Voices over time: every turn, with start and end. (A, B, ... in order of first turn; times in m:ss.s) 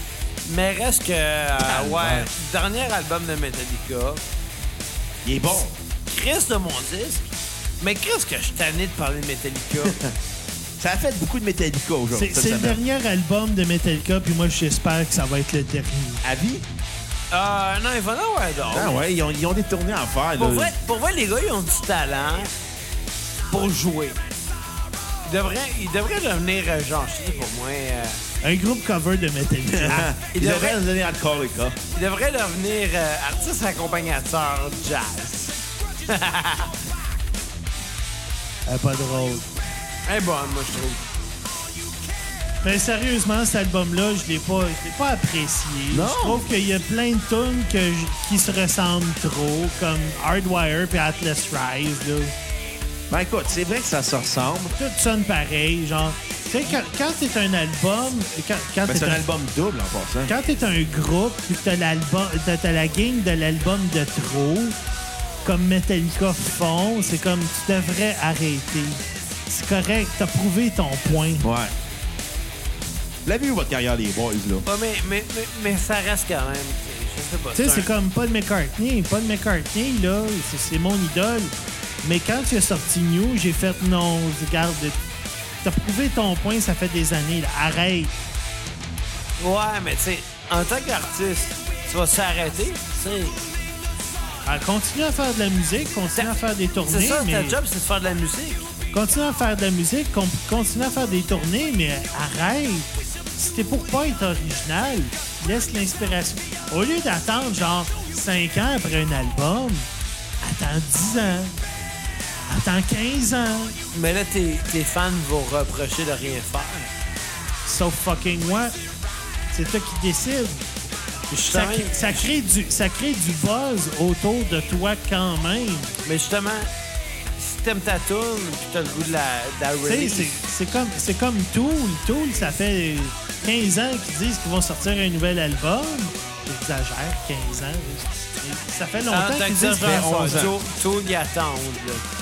0:00.4-0:04.2 A
0:01.6-0:02.3 B
0:05.2-0:05.7 B
0:06.1-0:07.3 A
0:07.8-0:10.0 A
0:09.8-0:10.1 B
0:10.8-0:12.8 B
0:12.1-0:16.2 C
0:16.2-0:16.6 B
0:17.3-0:19.0 A
0:18.7-0:20.7 B
0:20.4-0:22.5 A
0:23.5-0:24.2 A
0:25.2-0:28.2 A
0:28.4-0:30.1 C
0:29.7-0:31.8 B
0:30.3-0:30.8 A
0:31.9-0:36.7 A
0:38.6-0:39.5 C
0:40.0-0:41.0 A
0:42.6-0:52.3 C
0:45.9-0:46.5 B
0:53.1-0:54.8 B
0:54.7-0:59.2 C
0:58.8-1:00.3 B
1:00.2-1:04.8 C
1:05.4-1:11.5 C
1:11.4-1:11.7 B
1:13.2-1:14.6 B
1:14.6-1:17.9 A
1:17.5-1:25.0 C
1:25.6-1:28.1 C
1:29.4-1:33.4 A
1:34.4-1:37.6 C
1:36.1-1:38.7 A
1:38.9-1:49.9 C
1:50.4-1:51.5 C
1:52.5-1:53.8 C
1:53.9-1:56.9 A
1:57.6-1:58.8 C
1:59.5-2:00.7 C
2:01.3-2:02.0 A
2:01.5-2:06.0 C
2:06.0-2:06.7 A
2:07.4-2:10.3 A
2:09.8-2:20.1 C
2:19.1-2:22.0 A
2:19.7-2:20.6 B